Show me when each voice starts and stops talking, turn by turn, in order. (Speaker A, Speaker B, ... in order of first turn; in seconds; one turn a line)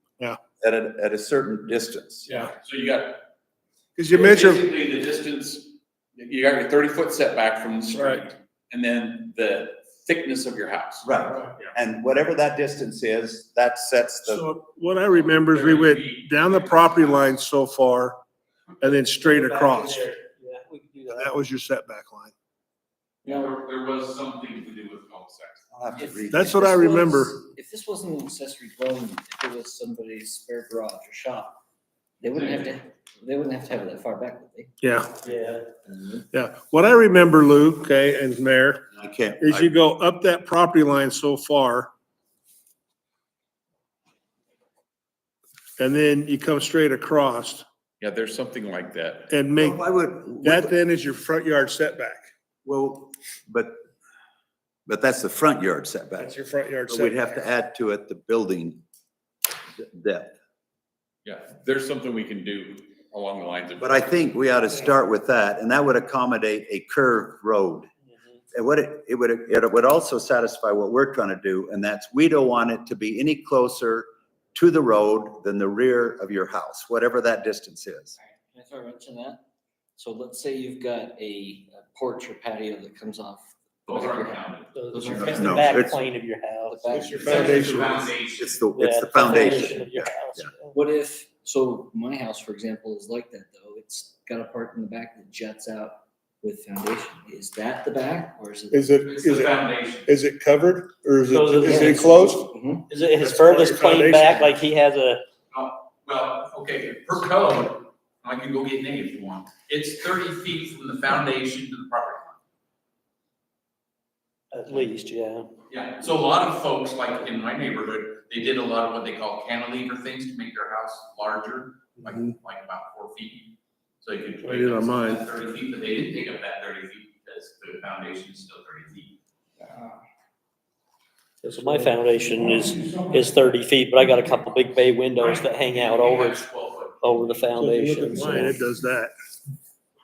Speaker A: 0.6-2.3
Speaker B: 2.3-2.5
Speaker C: 2.4-3.2
Speaker B: 4.0-4.7
Speaker C: 4.1-11.2
Speaker A: 11.0-14.5
Speaker B: 14.3-18.2
Speaker C: 15.0-17.3
Speaker B: 18.8-20.1
Speaker D: 18.9-21.4
Speaker B: 21.1-22.3
Speaker C: 23.2-25.7
Speaker E: 23.3-23.6
Speaker A: 25.7-26.7
Speaker E: 25.9-31.6
Speaker B: 26.3-27.4
Speaker E: 32.2-34.7
Speaker C: 32.3-32.7
Speaker B: 34.8-35.2
Speaker D: 35.2-35.6
Speaker E: 35.9-36.2
Speaker B: 36.3-38.8
Speaker A: 38.9-39.7
Speaker B: 39.4-41.9
Speaker B: 45.8-47.6
Speaker C: 48.0-49.3
Speaker B: 49.3-49.8
Speaker A: 49.6-50.7
Speaker B: 50.4-52.3
Speaker A: 52.6-53.7
Speaker A: 54.9-56.3
Speaker B: 56.2-57.2
Speaker A: 56.9-58.8
Speaker A: 59.8-60.4
Speaker C: 61.2-64.3
Speaker A: 63.8-67.9
Speaker A: 68.5-78.2
Speaker E: 78.2-79.4
Speaker E: 80.0-85.9
Speaker C: 83.9-84.7
Speaker D: 84.8-87.7
Speaker A: 85.2-86.0
Speaker E: 86.7-88.1
Speaker B: 86.9-88.1
Speaker C: 87.3-88.5
Speaker A: 88.3-90.5
Speaker D: 88.8-90.8
Speaker E: 90.7-98.9
Speaker B: 98.7-102.5
Speaker C: 99.0-100.1
Speaker D: 101.3-105.2
Speaker E: 101.6-102.9
Speaker B: 103.2-104.5
Speaker C: 105.5-112.4
Speaker D: 114.5-115.5
Speaker C: 115.7-123.5
Speaker B: 122.0-122.3
Speaker C: 124.0-129.2
Speaker B: 124.4-125.2
Speaker D: 131.4-136.4
Speaker C: 135.2-137.0
Speaker D: 137.0-138.6
Speaker B: 137.6-139.1